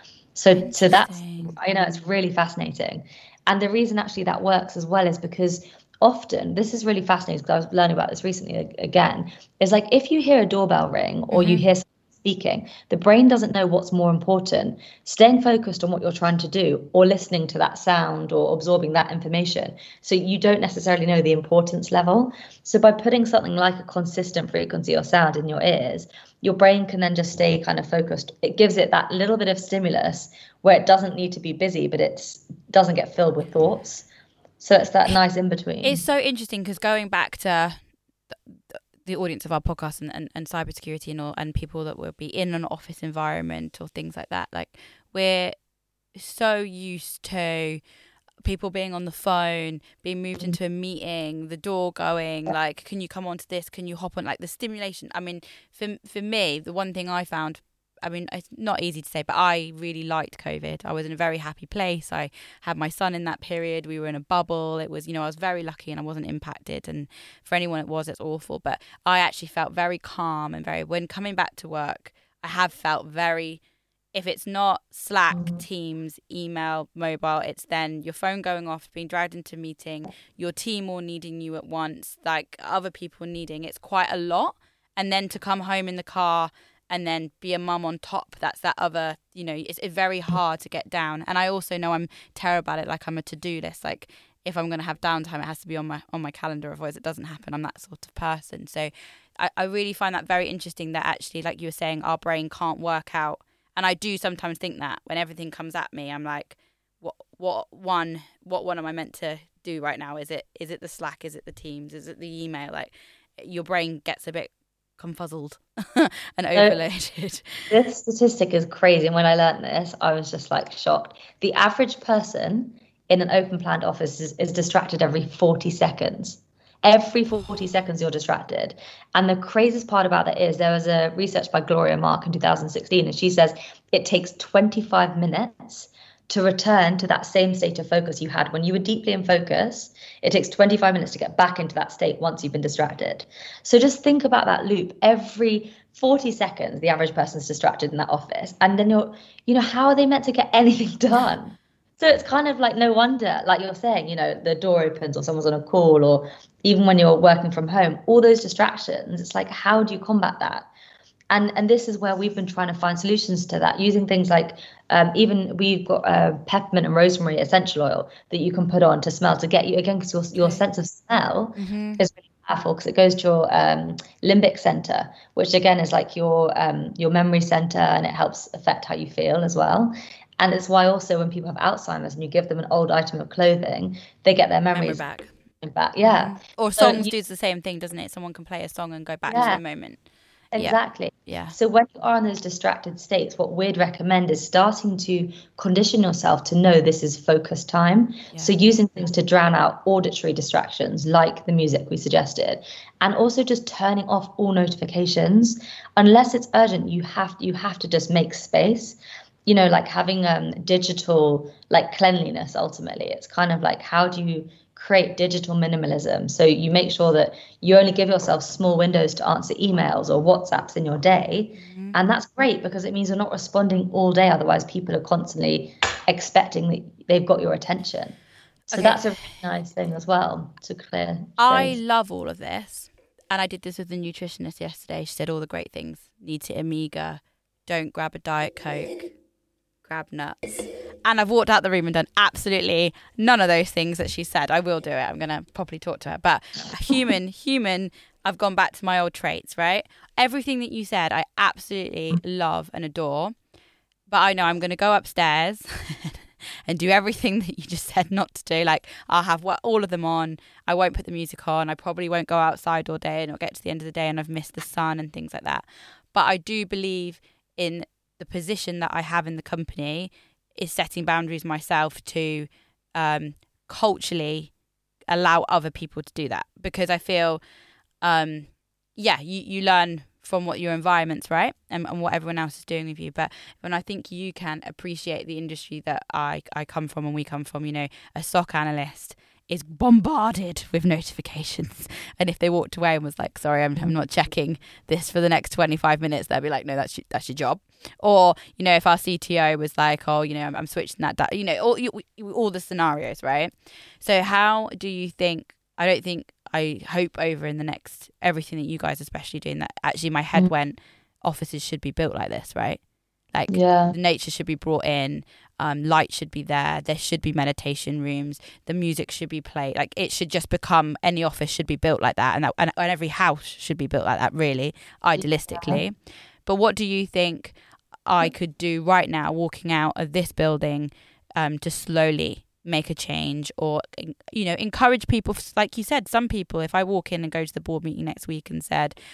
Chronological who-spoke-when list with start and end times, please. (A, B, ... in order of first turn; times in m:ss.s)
0:00.3-0:34.0 A
0:00.5-0:01.5 B
0:11.3-0:11.6 B
0:34.6-0:36.0 A
0:35.8-0:37.8 B
0:38.5-0:45.6 B
0:46.1-0:47.8 B
0:48.4-1:13.6 B
1:14.1-1:57.7 B
1:57.7-2:40.7 A
2:41.3-3:05.1 A
2:51.6-2:52.0 B
3:04.7-3:05.3 B
3:05.6-3:07.1 A
3:06.0-3:10.0 B
3:09.3-3:09.6 A
3:10.5-3:48.2 A
3:10.6-3:11.5 B
3:41.6-3:42.0 B
3:48.7-3:49.0 B
3:48.7-3:51.8 A
3:51.4-3:59.1 B
3:59.8-4:13.4 B
4:14.1-4:34.5 B
4:35.1-4:37.4 B
4:38.0-5:12.8 B
5:13.3-5:39.0 B
5:13.5-5:13.9 A
5:25.5-5:25.8 A